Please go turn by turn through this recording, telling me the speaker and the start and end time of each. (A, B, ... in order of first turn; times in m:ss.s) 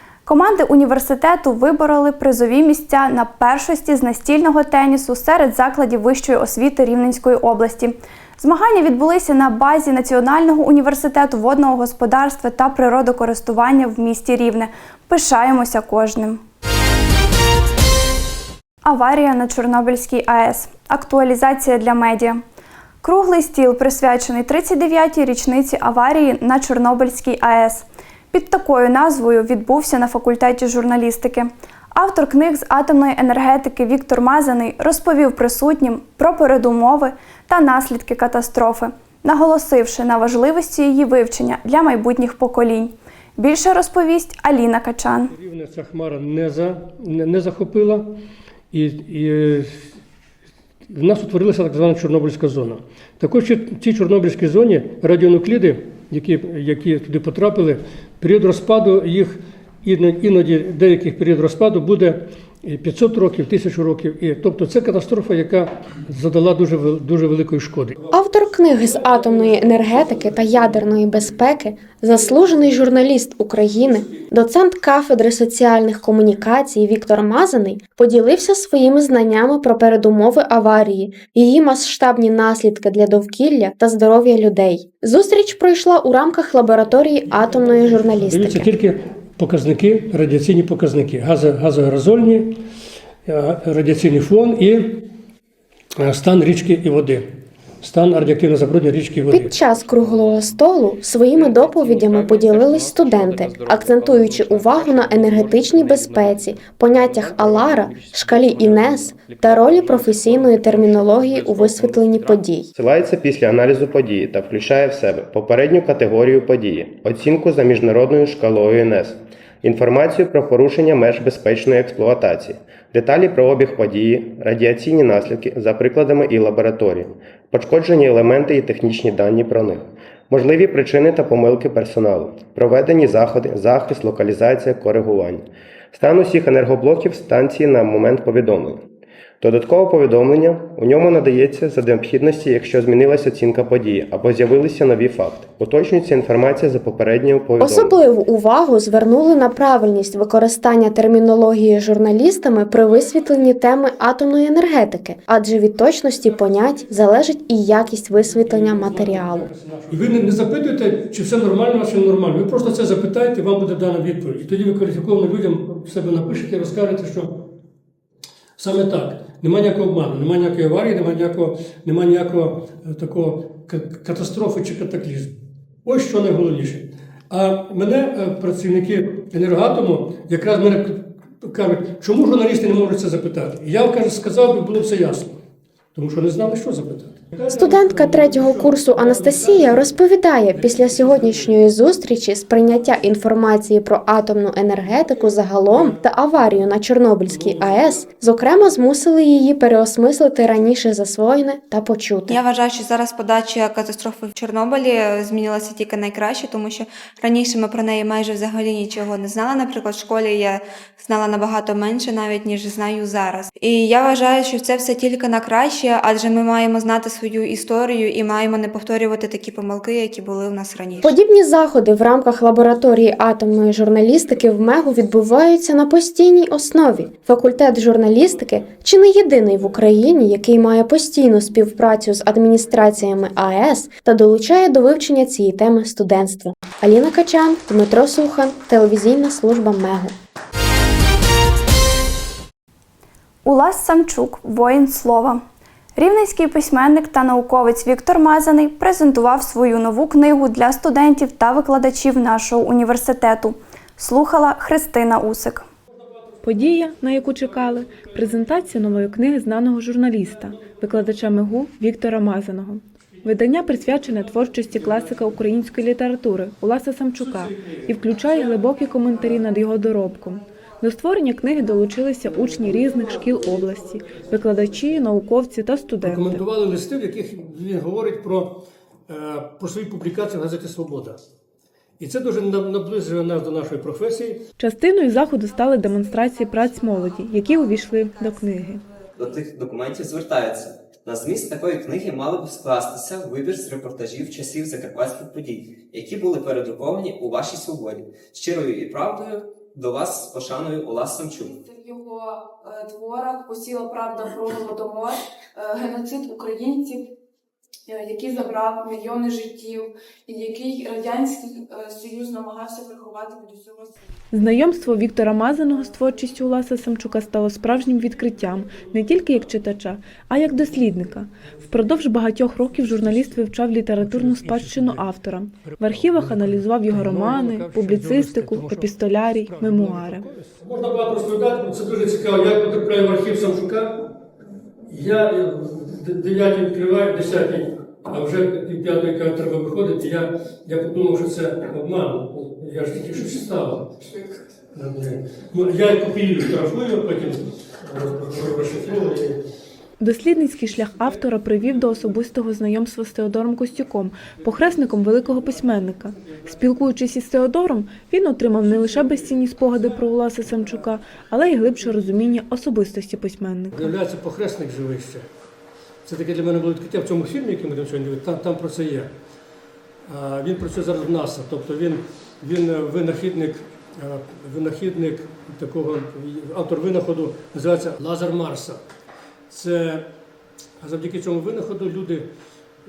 0:00.2-0:16.4 A
0:18.8-0:22.4 A
0:23.0-0:45.3 A
0:45.4-0:48.1 B
0:48.7-0:49.8 B
0:50.9-1:08.0 B
1:08.1-1:28.8 C
1:09.2-1:10.8 B
1:27.4-1:32.6 B
1:33.2-1:35.0 B
1:36.0-1:37.3 B
1:37.8-1:39.5 B
1:39.3-1:52.7 C
1:52.7-2:18.8 D
2:19.4-2:28.0 D
2:27.6-2:39.5 C
2:38.2-2:47.4 B
2:48.6-2:55.3 B
2:55.9-3:05.4 B
3:06.0-3:09.9 B
3:07.5-3:22.4 C
3:10.5-3:11.6 B
3:15.7-3:16.0 B
3:17.3-3:18.0 B
3:22.3-3:41.2 E
3:41.0-4:00.2 C
4:03.4-4:05.4 A
4:06.0-4:15.7 A
4:16.4-4:36.4 F
4:36.0-4:41.2 B
4:42.0-4:44.4 B
4:44.6-4:48.8 F
4:49.2-5:01.6 G
5:01.4-5:07.0 H
5:07.9-5:13.8 H
5:14.3-5:30.3 F
5:23.0-5:23.4 B
5:24.0-5:25.1 B
5:25.7-5:34.0 B
5:34.9-5:44.0 B
5:44.7-5:49.4 B
5:50.0-6:03.9 F
6:03.7-6:05.3 B
6:06.0-6:09.1 B
6:10.1-6:18.8 B
6:19.5-6:20.1 B
6:20.8-6:22.3 B